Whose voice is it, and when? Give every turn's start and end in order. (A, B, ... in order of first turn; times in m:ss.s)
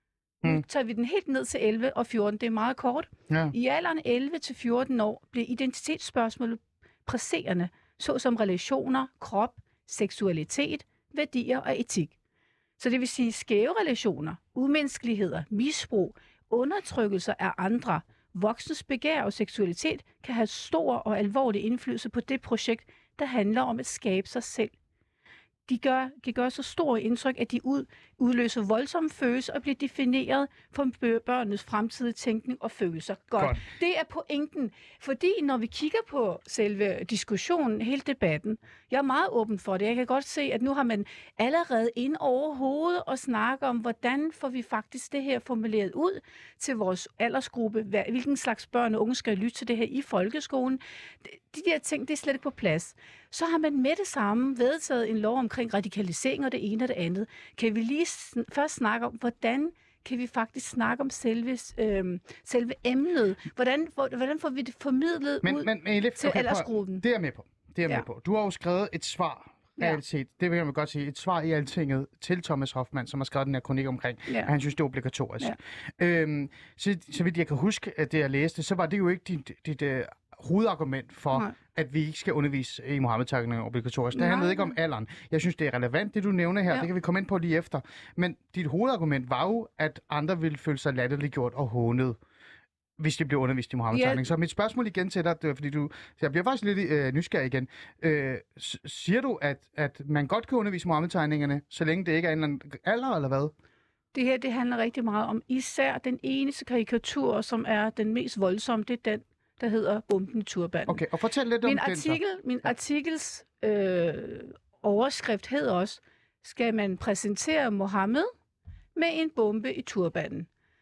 0:00.4-0:12.1 A
0:03.3-0:03.5 B
0:12.8-0:24.7 A
0:25.7-1:07.0 A
1:05.4-1:32.2 B
1:24.1-1:24.7 A
1:33.0-1:43.5 B
1:33.9-1:34.2 A
1:44.1-1:51.0 A
1:50.9-1:52.2 B
1:51.6-1:58.3 A
1:59.0-2:00.5 A